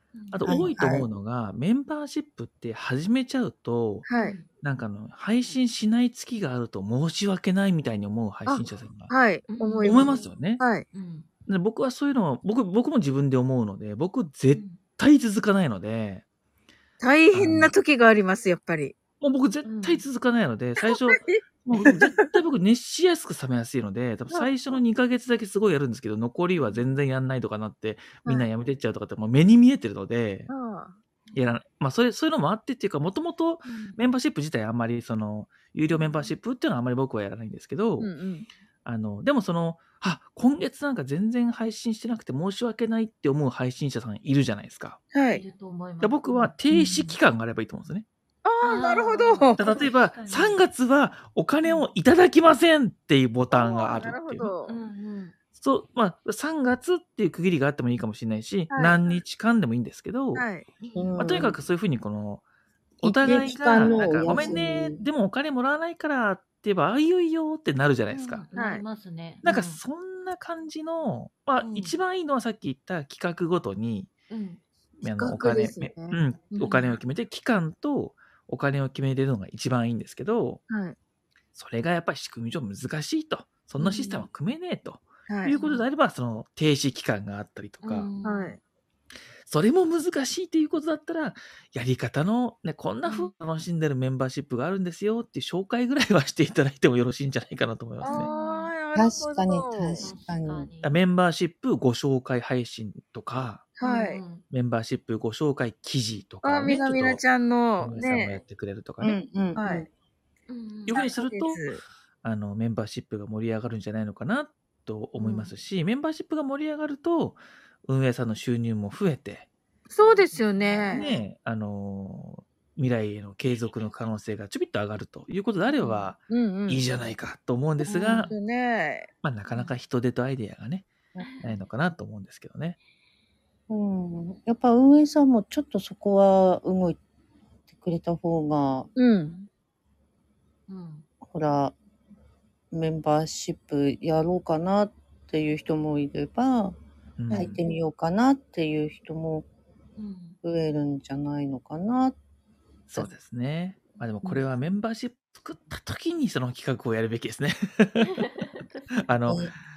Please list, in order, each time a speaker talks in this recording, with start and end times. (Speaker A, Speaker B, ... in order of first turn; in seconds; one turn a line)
Speaker A: 0.1-0.5
Speaker B: 0.3-4.1
Speaker C: 0.5-1.1
Speaker D: 4.1-4.4
Speaker A: 4.1-4.5
Speaker B: 4.6-9.1
Speaker D: 8.5-10.8
Speaker A: 9.5-10.3
Speaker B: 9.8-10.6
Speaker A: 10.9-11.3
Speaker B: 11.5-16.2
Speaker A: 14.5-14.8
Speaker D: 17.0-19.0
Speaker B: 17.3-17.7
Speaker B: 19.2-30.5
Speaker A: 19.6-20.0
Speaker D: 21.1-21.4
Speaker A: 26.6-26.9
Speaker D: 30.5-30.9
Speaker B: 31.4-38.1
Speaker A: 33.6-34.0
Speaker A: 35.9-36.4
Speaker D: 38.0-38.5
Speaker B: 38.9-45.0
Speaker D: 45.1-45.4
Speaker A: 45.3-47.2
Speaker B: 46.0-48.1
Speaker D: 48.5-49.7
Speaker A: 48.6-50.6
Speaker B: 49.6-54.5
Speaker A: 51.6-51.9
Speaker D: 53.5-54.7
Speaker A: 54.7-55.4
Speaker B: 55.5-60.5
Speaker D: 58.7-59.0
Speaker D: 60.3-60.6
Speaker A: 60.8-61.4
Speaker C: 61.0-61.6
Speaker B: 61.2-62.4
Speaker B: 63.0-68.5
Speaker C: 63.0-65.0
Speaker A: 68.1-69.8
Speaker D: 68.5-68.8
Speaker B: 69.4-74.1
Speaker A: 71.6-72.0
Speaker A: 74.3-74.6
Speaker B: 75.0-80.6
Speaker D: 75.0-76.6
Speaker A: 76.6-77.0
Speaker D: 80.7-81.0
Speaker B: 81.5-88.1
Speaker A: 83.8-84.3
Speaker D: 85.3-85.5
Speaker A: 85.5-85.9
Speaker A: 87.8-88.5
Speaker D: 88.2-88.6
Speaker B: 89.5-98.3
Speaker A: 93.0-93.3
Speaker D: 98.0-100.1
Speaker A: 98.1-98.7
Speaker C: 98.9-100.7
Speaker A: 100.0-101.0
Speaker B: 100.8-103.7
Speaker D: 103.8-104.2
Speaker A: 103.8-104.5
Speaker B: 104.5-107.2
Speaker D: 106.4-108.4
Speaker B: 107.8-109.2
Speaker C: 109.0-109.9
Speaker D: 109.5-109.9
Speaker A: 110.5-111.0
Speaker B: 110.9-111.6
Speaker D: 110.9-111.8
Speaker B: 112.2-119.5
Speaker D: 119.9-121.0
Speaker A: 120.0-121.2
Speaker B: 120.9-128.3
Speaker A: 125.7-126.1
Speaker D: 126.3-126.8
Speaker D: 127.9-129.1
Speaker A: 128.0-128.4
Speaker B: 129.2-130.9
Speaker A: 129.5-129.8
Speaker C: 131.2-131.4
Speaker A: 131.2-131.6
Speaker B: 131.4-132.8
Speaker C: 133.7-137.0
Speaker C: 137.7-138.9
Speaker D: 139.0-139.5
Speaker A: 140.7-141.1
Speaker C: 141.3-141.7
Speaker C: 142.7-146.8
Speaker B: 147.2-147.6
Speaker C: 147.3-149.5
Speaker A: 150.0-150.4
Speaker C: 150.4-152.2
Speaker B: 152.9-158.2
Speaker A: 158.1-158.9
Speaker B: 158.9-159.5
Speaker C: 159.3-159.5